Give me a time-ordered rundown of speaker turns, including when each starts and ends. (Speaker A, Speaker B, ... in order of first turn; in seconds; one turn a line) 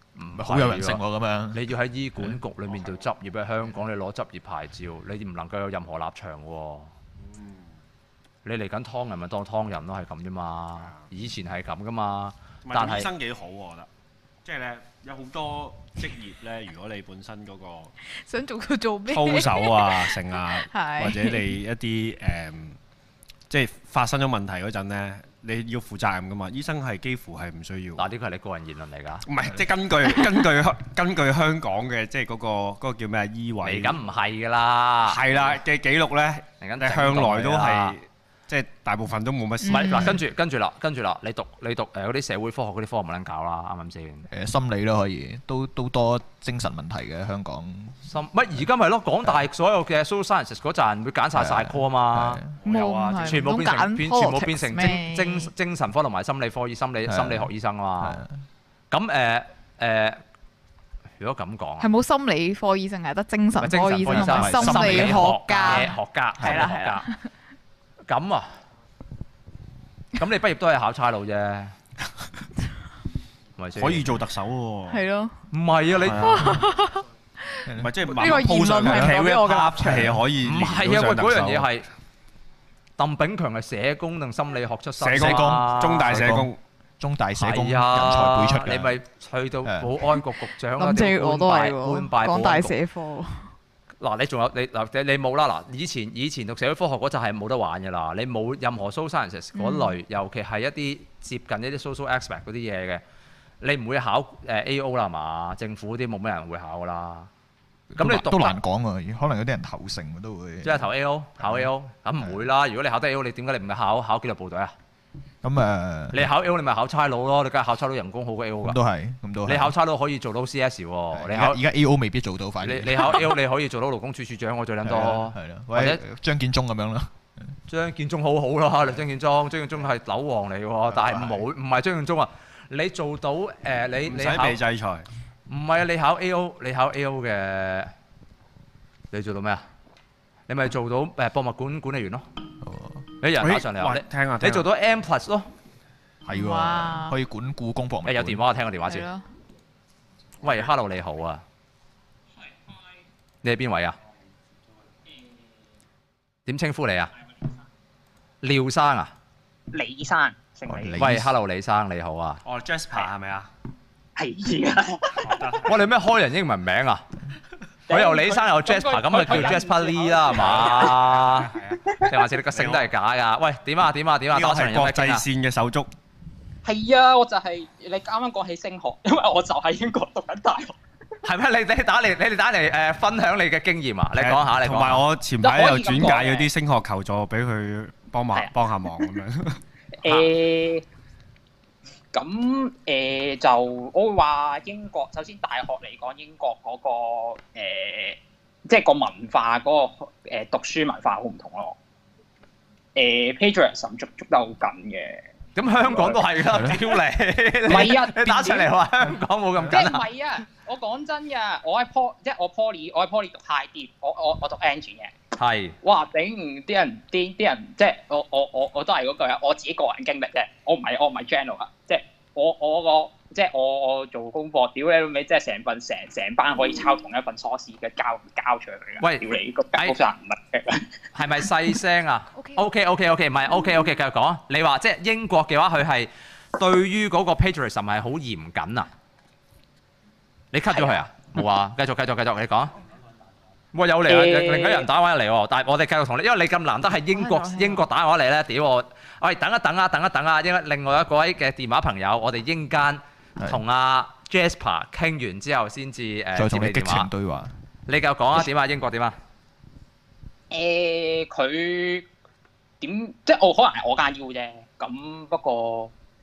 Speaker A: 0.2-6.9
Speaker B: 0.3-1.6
Speaker C: 2.7-3.0
Speaker C: 7.2-7.8
Speaker A: 8.4-13.1
Speaker C: 12.7-13.9
Speaker C: 14.4-17.9
Speaker D: 18.1-21.5
Speaker C: 19.1-22.8
Speaker C: 23.5-28.1
Speaker A: 28.0-29.2
Speaker C: 29.3-34.0
Speaker A: 33.6-35.2
Speaker C: 35.0-40.2
Speaker A: 36.6-38.0
Speaker D: 39.6-40.2
Speaker A: 39.7-44.3
Speaker B: 44.3-48.1
Speaker A: 48.1-52.4
Speaker B: 51.3-52.6
Speaker C: 52.6-53.5
Speaker D: 52.6-55.5
Speaker A: 53.2-58.2
Speaker B: 57.1-58.4
Speaker A: 58.9-60.2
Speaker A: 61.2-61.9
Speaker D: 61.8-67.2
Speaker A: 63.6-67.1
Speaker B: 64.1-65.8
Speaker A: 68.1-68.5
Speaker A: 70.2-71.7
Speaker A: 73.6-74.1
Speaker C: 73.8-75.0
Speaker D: 74.9-75.3
Speaker A: 75.5-76.5
Speaker C: 76.0-76.7
Speaker D: 76.2-80.2
Speaker B: 77.7-78.2
Speaker C: 77.8-81.7
Speaker B: 78.8-79.1
Speaker A: 79.2-81.9
Speaker A: 83.0-86.2
Speaker C: 85.0-86.6
Speaker B: 85.2-89.0
Speaker A: 87.4-92.8
Speaker B: 89.7-90.0
Speaker D: 90.8-93.5
Speaker A: 94.0-103.0
Speaker D: 99.5-100.0
Speaker A: 103.6-107.3
Speaker B: 107.9-110.9
Speaker A: 108.0-108.6
Speaker A: 110.6-114.8
Speaker B: 111.4-111.7
Speaker B: 115.4-116.3
Speaker A: 116.1-118.8
Speaker B: 118.6-119.8
Speaker A: 119.5-121.6
Speaker B: 121.1-123.3
Speaker A: 122.6-126.0
Speaker B: 124.8-127.5
Speaker A: 127.7-134.6
Speaker B: 130.9-131.5
Speaker C: 134.0-135.1
Speaker A: 135.5-137.9
Speaker A: 139.1-139.7
Speaker A: 140.5-142.2
Speaker B: 142.6-143.1
Speaker A: 143.2-145.5
Speaker C: 143.4-144.7
Speaker B: 146.3-148.5
Speaker D: 146.3-147.2
Speaker A: 148.1-149.1
Speaker D: 148.8-149.2
Speaker A: 150.4-151.4
Speaker A: 153.4-154.0
Speaker A: 156.5-157.1
Speaker A: 158.4-159.1
Speaker E: 159.7-161.1
Speaker B: 160.7-161.3
Speaker A: 161.0-162.4
Speaker C: 162.4-163.5
Speaker E: 164.2-165.5
Speaker C: 165.2-165.9
Speaker A: 165.7-167.0
Speaker E: 167.9-171.0
Speaker A: 167.9-171.5
Speaker C: 169.3-169.5
Speaker C: 170.2-171.8
Speaker A: 172.1-175.3
Speaker C: 172.5-172.9
Speaker C: 174.3-175.9
Speaker E: 176.6-180.8
Speaker A: 181.2-185.1
Speaker C: 184.2-189.6
Speaker E: 185.4-186.5
Speaker E: 190.0-190.8
Speaker E: 192.1-201.8
Speaker E: 202.9-205.2
Speaker A: 205.6-210.1
Speaker B: 205.9-206.8
Speaker E: 207.7-208.7
Speaker E: 209.7-215.2
Speaker A: 215.4-215.8
Speaker E: 215.8-230.9
Speaker A: 229.0-230.0
Speaker A: 231.2-238.9
Speaker A: 240.5-242.7
Speaker A: 243.7-257.1
Speaker E: 244.1-244.9
Speaker D: 247.1-247.8
Speaker B: 253.4-253.6
Speaker B: 256.3-257.5
Speaker A: 257.9-259.2
Speaker E: 260.5-262.1
Speaker E: 262.8-265.9